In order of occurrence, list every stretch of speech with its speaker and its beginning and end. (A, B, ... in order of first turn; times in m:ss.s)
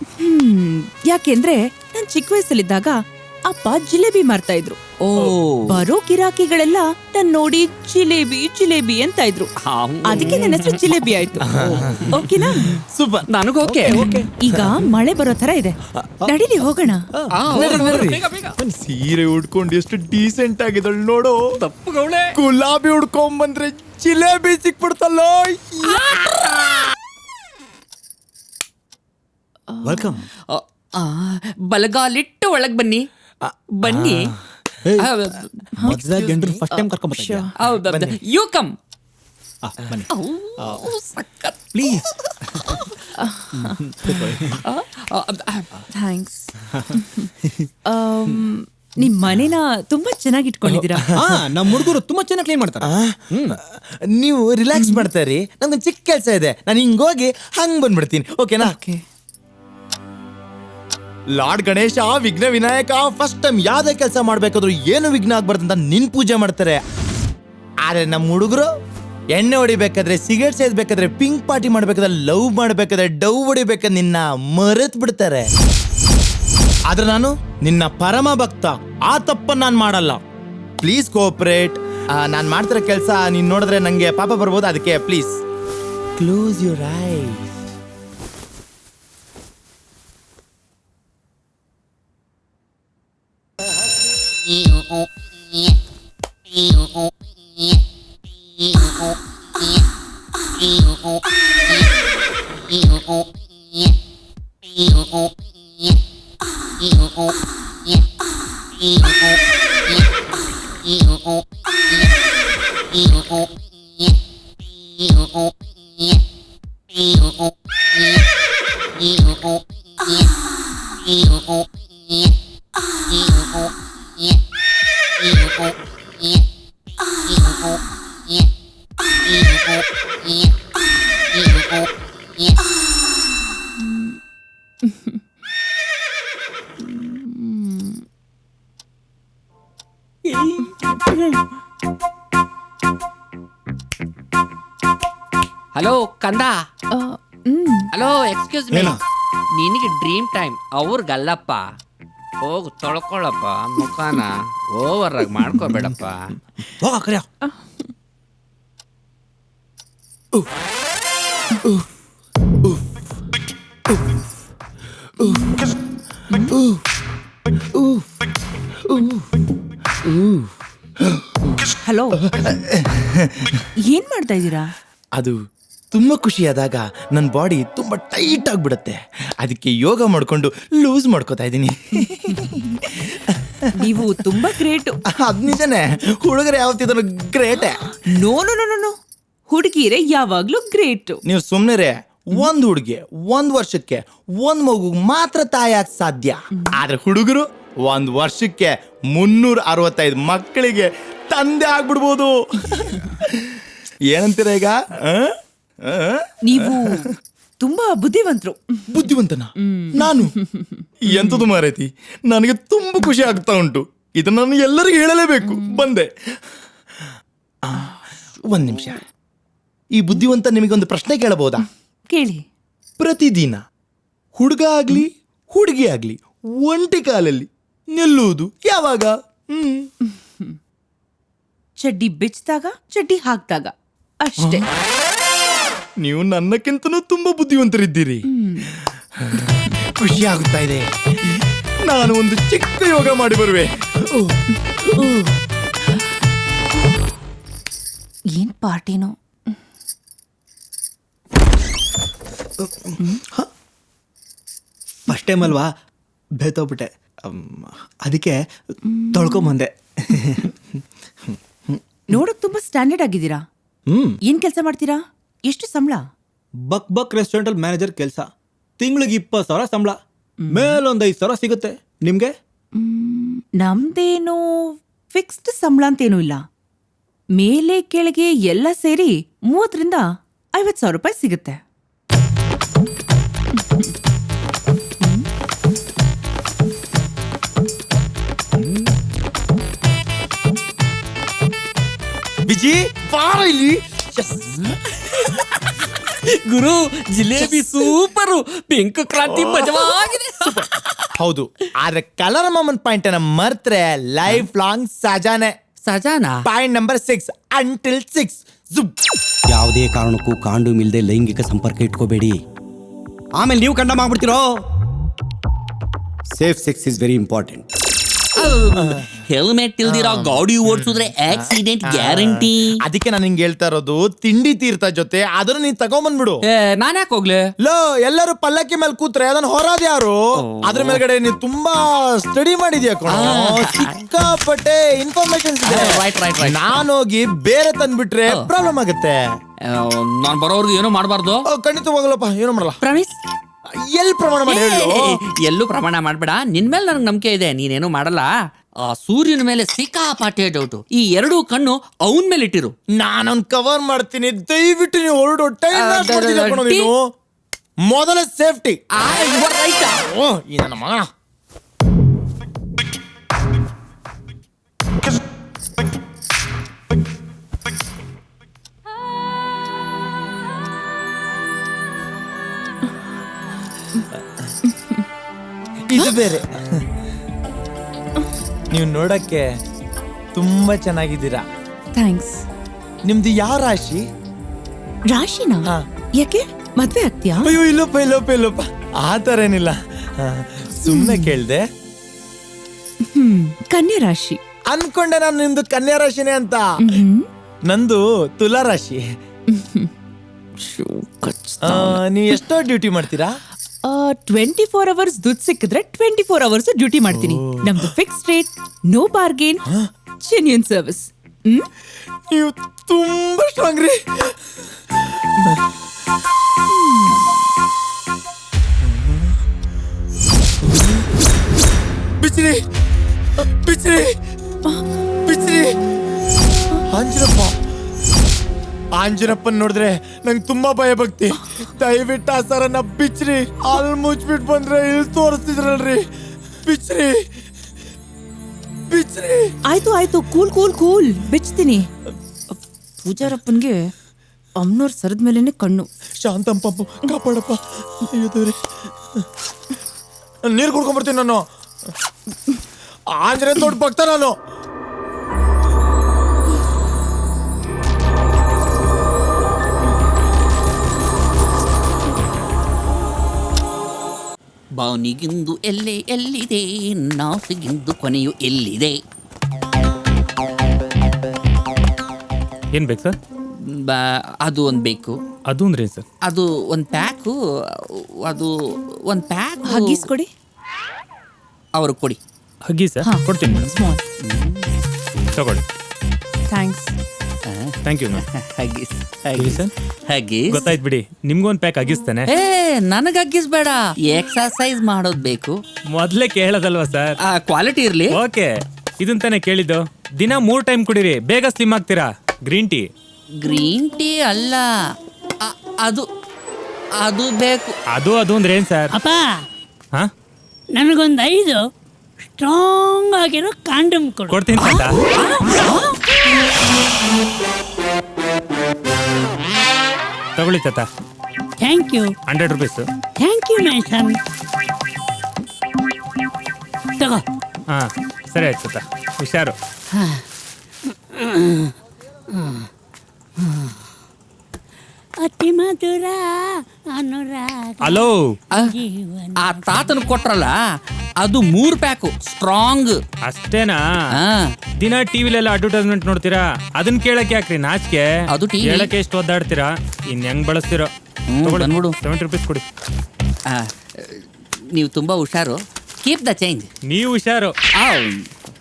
0:00.2-0:04.9 A
0:05.1-0:05.8 B
0:05.7-0:09.5 A
0:09.6-0:10.5 B
0:10.0-0:11.4 A
0:11.6-0:12.1 C
0:11.6-0:12.1 D
0:12.1-0:12.7 A
0:12.7-0:13.3 C
0:13.3-0:14.0 B
0:13.6-0:14.3 D
0:14.4-0:17.1 A
0:17.1-0:18.1 D
0:17.3-0:18.5 B
0:17.5-0:21.4 C
0:21.6-0:22.3 B
0:22.3-0:26.1 C
0:25.9-0:26.7 B
0:29.7-0:30.1 A
0:29.8-0:30.2 D
0:30.5-0:33.0 B
0:33.4-0:34.3 C
0:33.8-0:34.3 B
0:34.8-0:35.1 D
0:35.0-0:35.6 B
0:35.8-0:37.5 A
0:35.8-0:38.0 D
0:37.6-0:38.8 B
0:39.6-0:40.9 D
0:40.1-0:42.9 B
0:41.7-0:42.0 D
0:43.1-0:44.3 A
0:43.5-0:44.6 D
0:44.6-0:45.7 B
0:45.9-0:47.3 A
0:47.8-0:51.1 A
0:50.7-0:51.3 C
0:51.1-0:53.6 D
0:52.8-0:58.8 C
0:58.6-0:59.0 A
1:01.3-1:06.8 C
1:07.8-1:08.7 C
1:09.3-1:15.5 C
1:16.9-1:20.2 C
1:20.8-1:25.4 C
1:26.2-1:27.5 C
2:14.8-2:15.2 A
2:16.8-2:18.0 A
2:20.4-2:20.9 B
2:25.7-2:26.6 B
2:26.9-2:27.9 A
2:27.9-2:29.0 B
2:28.7-2:29.0 D
2:29.5-2:31.7 B
2:32.4-2:36.2 B
2:36.8-2:37.2 D
2:45.2-2:45.6 C
2:46.3-2:46.8 C
2:47.7-2:48.1 C
2:48.8-2:49.3 C
2:50.0-2:50.4 C
2:51.0-2:51.4 C
2:51.8-2:52.2 A
2:52.2-2:53.6 C
2:53.8-2:54.7 A
2:55.9-3:04.0 C
3:03.7-3:05.0 A
3:05.1-3:07.9 C
3:08.0-3:08.9 A
3:09.5-3:11.2 A
3:11.2-3:27.0 C
3:26.4-3:28.9 A
3:28.9-3:30.3 C
3:29.6-3:31.4 A
3:31.0-3:36.1 C
3:35.4-3:35.8 A
3:37.6-3:39.0 C
3:39.9-3:41.6 C
3:42.1-3:42.4 A
3:43.0-3:43.6 C
3:44.3-3:49.9 C
3:50.1-3:50.5 A
3:51.8-3:54.6 A
3:54.4-3:54.6 C
3:56.0-3:58.2 C
3:58.3-3:58.7 A
3:59.1-4:05.2 C
4:08.3-4:09.1 A
4:15.1-4:15.6 D
4:16.4-4:18.3 D
4:18.8-4:19.5 A
4:19.1-4:20.6 D
4:22.1-4:23.4 A
4:23.9-4:24.2 D
4:24.2-4:26.0 A
4:26.7-4:28.2 D
4:28.8-4:30.0 D
4:30.4-4:30.8 A
4:30.5-4:32.3 D
4:32.7-4:34.4 A
4:35.1-4:36.4 A
4:37.4-4:41.6 A
4:43.6-4:43.9 A
4:45.0-4:45.2 A
4:52.5-4:54.5 C
4:54.7-5:01.1 B
4:59.3-5:00.6 C
5:01.2-5:05.5 C
5:05.8-5:06.4 B
5:06.4-5:08.9 C
5:09.5-5:12.4 E
5:13.4-5:14.5 E
5:16.3-5:17.6 E
5:18.4-5:22.8 B
5:18.8-5:19.1 C
5:19.9-5:26.4 C
5:26.5-5:27.4 B
5:27.6-5:39.2 C
5:30.4-5:31.0 B
5:33.1-5:34.0 B
5:35.6-5:36.8 B
5:39.6-5:41.4 B
5:41.4-5:42.8 C
5:42.8-5:43.2 A
5:43.7-5:45.2 C
5:44.5-5:48.3 B
5:48.8-5:52.7 B
5:53.0-5:57.0 C
5:55.7-5:56.9 B
5:57.8-5:58.8 C
5:59.0-6:00.0 B
5:59.8-6:01.0 C
6:14.6-6:15.0 A
6:15.9-6:16.9 C
6:18.7-6:19.5 C
6:20.3-6:21.4 C
6:21.9-6:22.4 A
6:23.0-6:24.0 C
6:25.1-6:27.5 A
6:27.4-6:31.6 C
6:30.9-6:31.3 A
6:33.0-6:34.4 A
6:34.7-6:36.6 C
6:36.8-6:37.3 A
6:37.7-6:39.0 C
6:39.5-6:39.9 A
6:40.6-6:42.0 A
6:41.6-6:43.3 C
6:43.8-6:49.6 A
6:47.1-6:47.9 C
6:50.2-6:51.7 A
6:52.3-6:54.4 C
6:56.7-6:57.4 A
6:58.8-6:59.3 C
7:00.6-7:01.0 C
7:02.2-7:02.6 C
7:03.5-7:04.2 C
7:05.2-7:05.8 C
7:06.9-7:07.5 C
7:09.0-7:16.1 C
7:16.6-7:17.3 C
7:18.9-7:19.6 C
7:19.6-7:21.9 A
7:23.0-7:23.9 A
7:24.6-7:25.9 A
7:26.2-7:28.6 C
7:30.5-7:31.4 C
7:33.1-7:34.4 C
7:44.8-7:49.0 B
7:52.7-7:53.2 F
7:53.6-7:55.2 B
7:55.5-7:56.0 F
7:56.2-7:58.5 B
7:59.1-8:00.0 B
7:59.6-8:00.3 A
8:01.8-8:02.2 B
8:02.7-8:03.7 F
8:03.0-8:04.0 A
8:04.2-8:04.7 B
8:05.3-8:05.6 F
8:06.5-8:07.0 A
8:07.4-8:10.7 B
8:07.8-8:08.2 F
8:09.4-8:09.7 F
8:10.5-8:12.3 F
8:12.3-8:15.6 B
8:15.9-8:17.2 F
8:17.2-8:18.1 B
8:18.1-8:22.9 F
8:23.4-8:24.7 B
8:25.4-8:26.0 B
8:27.0-8:27.7 B
8:27.9-8:28.9 F
8:28.9-8:29.4 G
8:30.7-8:31.6 G
8:32.3-8:34.8 G
8:34.3-8:35.0 F
8:35.2-8:35.9 A
8:40.4-8:40.9 F
8:41.6-8:42.1 G
8:42.2-8:42.9 F
8:43.2-8:44.2 G
8:47.7-8:49.6 F
8:49.9-8:50.2 G
8:51.1-8:51.7 G
8:52.3-8:52.7 G
8:53.4-8:53.8 G
8:55.2-8:59.9 G
8:57.8-8:58.2 F
8:59.4-9:00.6 B
9:01.2-9:03.0 B
9:03.2-9:03.8 F
9:04.1-9:04.5 B
9:04.8-9:08.1 F
9:08.3-9:08.9 B
9:08.6-9:10.9 F
9:11.3-9:11.9 B
9:11.4-9:12.6 F
9:13.5-9:16.7 B
9:16.9-9:17.5 F
9:17.7-9:18.2 B